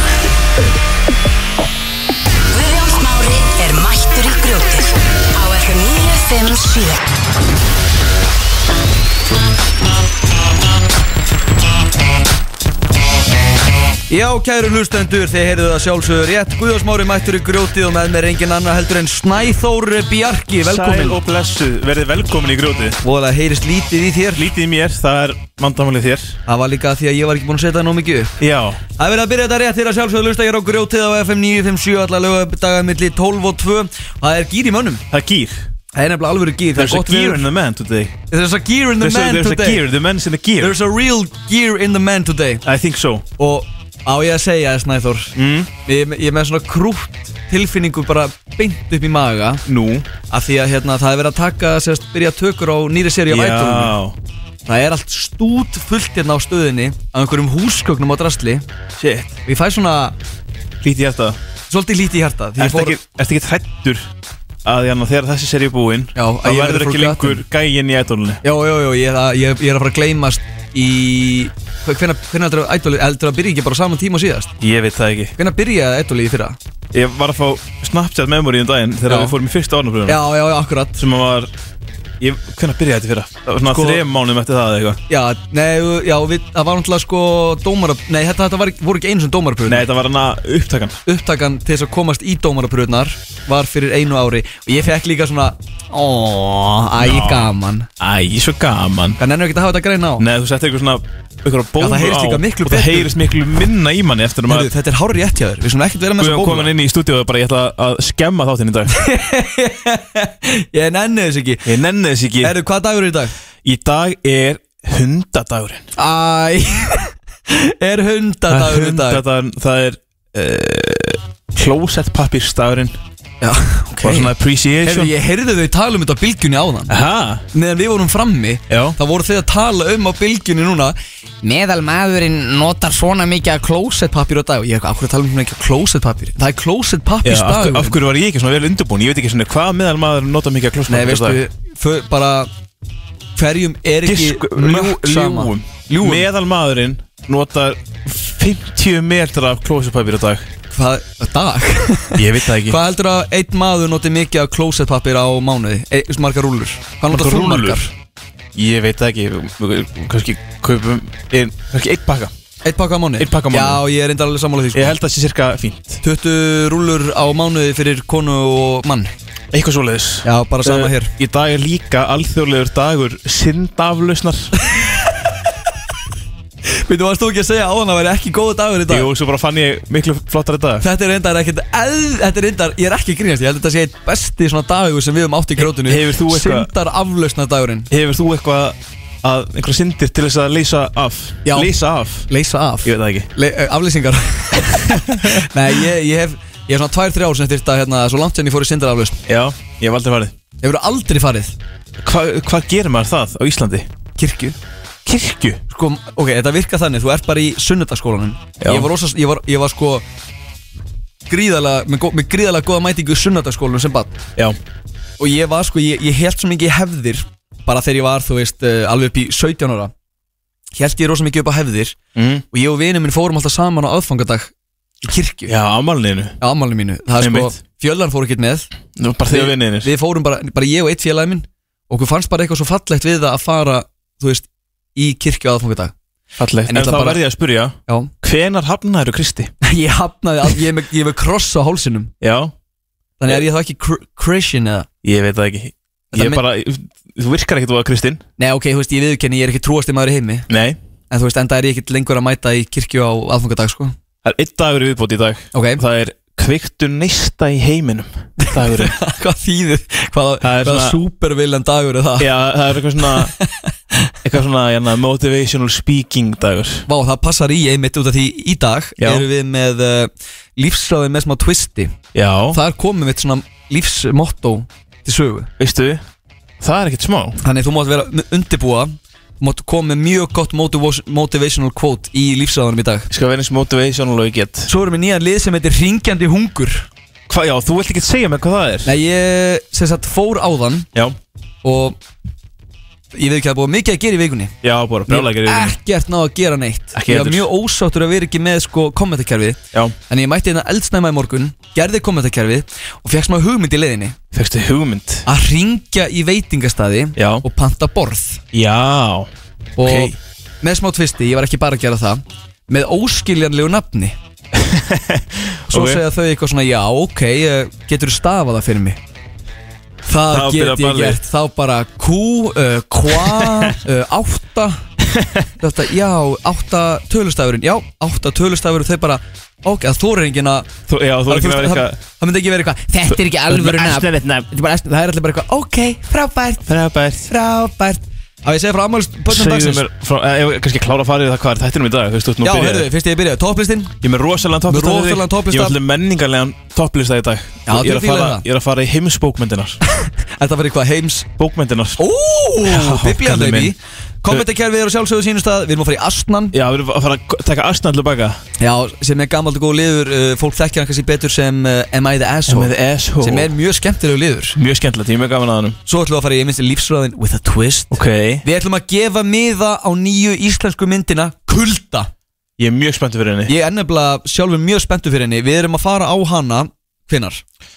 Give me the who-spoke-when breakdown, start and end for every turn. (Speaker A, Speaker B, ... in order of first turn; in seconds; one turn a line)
Speaker A: 2.5-7.0
Speaker B: 14.1-21.2
Speaker C: 20.6-23.0
Speaker B: 23.0-24.5
Speaker C: 24.3-26.4
Speaker B: 26.5-28.3
Speaker C: 28.4-28.8
Speaker B: 29.0-35.0
Speaker C: 35.1-35.7
Speaker B: 35.9-37.4
Speaker C: 36.8-38.2
Speaker B: 38.3-39.8
Speaker C: 39.0-40.8
Speaker B: 40.6-42.6
Speaker C: 42.6-43.2
Speaker B: 43.4-45.3
Speaker C: 45.3-45.7
Speaker B: 45.8-49.6
Speaker C: 49.6-50.1
Speaker B: 50.3-53.9
Speaker C: 53.3-54.2
Speaker B: 54.6-58.6
Speaker C: 59.0-59.3
Speaker B: 59.5-60.1
Speaker C: 60.8-61.4
Speaker B: 61.7-63.0
Speaker C: 62.6-64.1
Speaker C: 64.6-68.4
Speaker B: 66.2-67.4
Speaker B: 68.4-74.5
Speaker C: 74.6-75.3
Speaker B: 75.4-76.6
Speaker C: 76.9-80.2
Speaker B: 79.1-79.3
Speaker B: 80.1-81.0
Speaker C: 80.9-81.5
Speaker C: 82.2-85.0
Speaker B: 83.7-84.0
Speaker B: 85.1-89.8
Speaker C: 89.7-91.0
Speaker B: 91.0-97.9
Speaker C: 97.0-99.2
Speaker B: 99.2-100.2
Speaker C: 100.2-104.7
Speaker B: 101.8-103.1
Speaker B: 104.5-106.7
Speaker C: 106.2-109.0
Speaker B: 108.9-111.7
Speaker C: 111.7-112.5
Speaker B: 112.4-113.3
Speaker C: 113.6-115.9
Speaker B: 116.0-119.2
Speaker C: 118.5-123.0
Speaker B: 123.4-126.9
Speaker C: 124.0-125.1
Speaker C: 126.9-127.5
Speaker B: 127.5-138.0
Speaker C: 128.7-129.0
Speaker C: 137.2-141.4
Speaker B: 140.9-142.5
Speaker B: 143.3-146.3
Speaker C: 144.0-150.5
Speaker B: 150.7-157.9
Speaker C: 152.2-152.8
Speaker C: 157.1-157.8
Speaker C: 158.5-162.3
Speaker B: 162.6-164.9
Speaker C: 163.2-163.8
Speaker C: 164.7-166.0
Speaker B: 166.0-169.1
Speaker C: 169.5-174.5
Speaker B: 170.2-171.1
Speaker B: 174.7-175.1
Speaker B: 176.7-179.1
Speaker C: 178.9-180.8
Speaker B: 180.8-187.9
Speaker C: 185.6-186.7
Speaker C: 187.9-192.3
Speaker B: 191.4-191.7
Speaker B: 192.3-199.2
Speaker C: 192.8-193.3
Speaker C: 194.8-195.4
Speaker C: 199.2-200.3
Speaker B: 200.6-201.6
Speaker C: 202.0-203.9
Speaker B: 204.2-204.6
Speaker C: 205.0-205.6
Speaker B: 205.7-210.0
Speaker C: 208.6-208.9
Speaker B: 211.3-214.2
Speaker B: 215.2-219.9
Speaker B: 220.8-222.0
Speaker C: 222.1-222.4
Speaker B: 222.5-224.5
Speaker B: 225.0-225.5
Speaker C: 225.4-226.4
Speaker B: 226.4-228.7
Speaker C: 227.2-227.6
Speaker C: 228.9-229.9
Speaker B: 229.3-235.9
Speaker C: 236.4-239.5
Speaker B: 236.7-237.2
Speaker B: 237.9-238.1
Speaker B: 239.6-242.1
Speaker C: 242.2-242.5
Speaker B: 243.2-244.9
Speaker C: 245.0-248.2
Speaker B: 246.1-246.4
Speaker B: 248.4-250.4
Speaker C: 250.5-250.8
Speaker B: 251.1-253.9
Speaker C: 254.2-259.0
Speaker B: 255.5-255.8
Speaker B: 258.4-262.3
Speaker C: 260.4-261.0
Speaker C: 262.2-263.3
Speaker B: 263.1-263.5
Speaker C: 264.2-266.9
Speaker B: 266.9-271.9
Speaker C: 269.0-269.2
Speaker C: 272.1-272.6
Speaker B: 272.5-275.5
Speaker C: 275.6-276.0
Speaker C: 276.6-277.4
Speaker B: 277.4-283.1
Speaker C: 283.1-284.7
Speaker B: 284.7-286.9
Speaker C: 287.3-288.9
Speaker B: 288.8-290.9
Speaker B: 291.6-292.0
Speaker B: 293.1-294.5
Speaker C: 294.6-295.8
Speaker B: 295.1-304.2
Speaker C: 296.9-297.5
Speaker C: 304.3-305.3
Speaker B: 305.2-308.4
Speaker C: 307.1-307.4
Speaker C: 308.5-310.2
Speaker B: 309.8-314.1
Speaker C: 314.5-316.0
Speaker B: 315.7-319.0
Speaker B: 320.1-324.8
Speaker C: 320.3-321.2
Speaker C: 323.1-323.8
Speaker C: 325.0-325.5
Speaker B: 325.6-330.7
Speaker C: 330.9-332.0
Speaker B: 331.3-336.6
Speaker C: 333.1-334.5
Speaker C: 336.6-337.3
Speaker B: 337.2-339.8
Speaker C: 339.3-342.9
Speaker B: 342.4-343.9
Speaker C: 344.0-349.8
Speaker B: 344.7-345.8
Speaker B: 347.7-348.4
Speaker B: 349.9-351.3
Speaker C: 351.4-352.0
Speaker B: 352.0-356.5
Speaker C: 352.6-353.7
Speaker C: 356.5-358.4
Speaker B: 358.6-364.6
Speaker C: 362.5-363.5
Speaker C: 364.5-365.8
Speaker B: 365.9-372.1
Speaker C: 367.9-368.4
Speaker C: 372.6-373.5
Speaker B: 373.5-377.4